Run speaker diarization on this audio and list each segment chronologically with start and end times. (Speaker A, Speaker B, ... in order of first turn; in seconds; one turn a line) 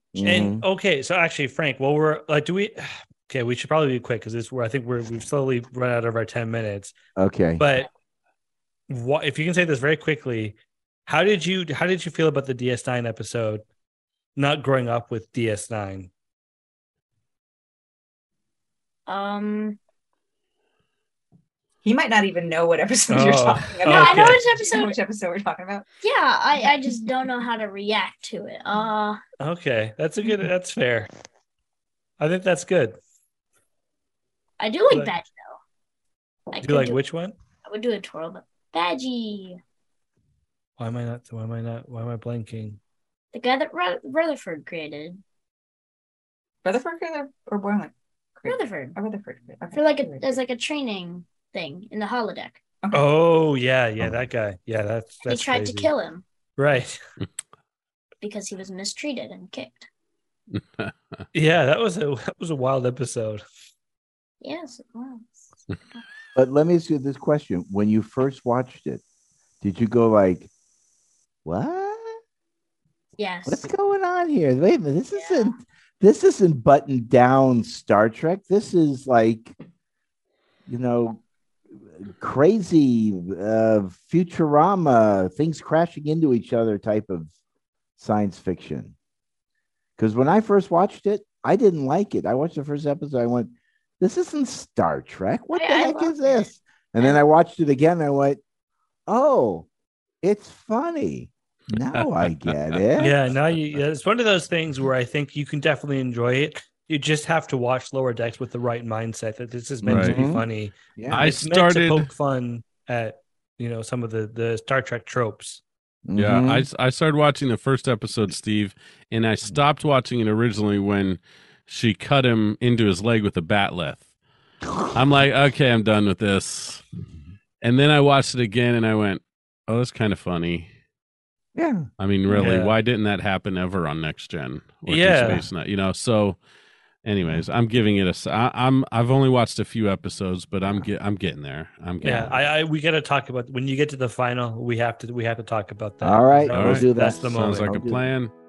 Speaker A: 0.1-0.6
Speaker B: 0.2-6.9
Speaker A: 7.2-7.6
Speaker B: 7.6-7.9
Speaker B: 8.9-13.6
Speaker B: 14.3-16.1
Speaker C: 19.1-19.8
Speaker D: 21.8-25.8
Speaker B: 23.1-24.4
Speaker C: 23.8-24.9
Speaker C: 26.0-29.2
Speaker B: 29.4-31.1
Speaker B: 32.2-33.0
Speaker C: 34.6-35.6
Speaker C: 36.5-37.0
Speaker B: 36.6-37.3
Speaker C: 37.6-39.6
Speaker B: 40.8-42.8
Speaker C: 43.3-45.2
Speaker D: 46.6-50.2
Speaker C: 48.5-49.0
Speaker C: 49.7-52.6
Speaker B: 52.9-55.9
Speaker C: 55.2-56.2
Speaker B: 56.6-57.0
Speaker C: 58.2-59.9
Speaker E: 60.5-61.2
Speaker B: 61.3-63.4
Speaker C: 64.4-66.0
Speaker A: 66.3-69.0
Speaker A: 69.6-70.5
Speaker A: 71.4-72.2
Speaker C: 73.2-73.7
Speaker A: 73.5-79.5
Speaker C: 75.1-75.6
Speaker A: 80.7-81.2
Speaker A: 82.0-87.3
Speaker A: 88.0-88.9
Speaker A: 90.0-98.4
Speaker C: 95.5-97.2
Speaker A: 99.1-99.7
Speaker A: 100.2-103.2
Speaker B: 103.0-115.6
Speaker A: 109.8-111.3
Speaker E: 109.9-110.2
Speaker E: 111.1-112.1
Speaker A: 116.0-116.7
Speaker E: 116.2-124.0
Speaker A: 124.7-125.0
Speaker E: 124.9-126.8
Speaker E: 127.6-130.7
Speaker A: 131.5-131.9
Speaker E: 132.0-136.4
Speaker B: 132.3-132.7
Speaker B: 134.9-135.4
Speaker E: 137.0-142.3
Speaker A: 142.0-142.3
Speaker B: 142.1-147.7
Speaker A: 146.0-148.1
Speaker E: 146.5-148.3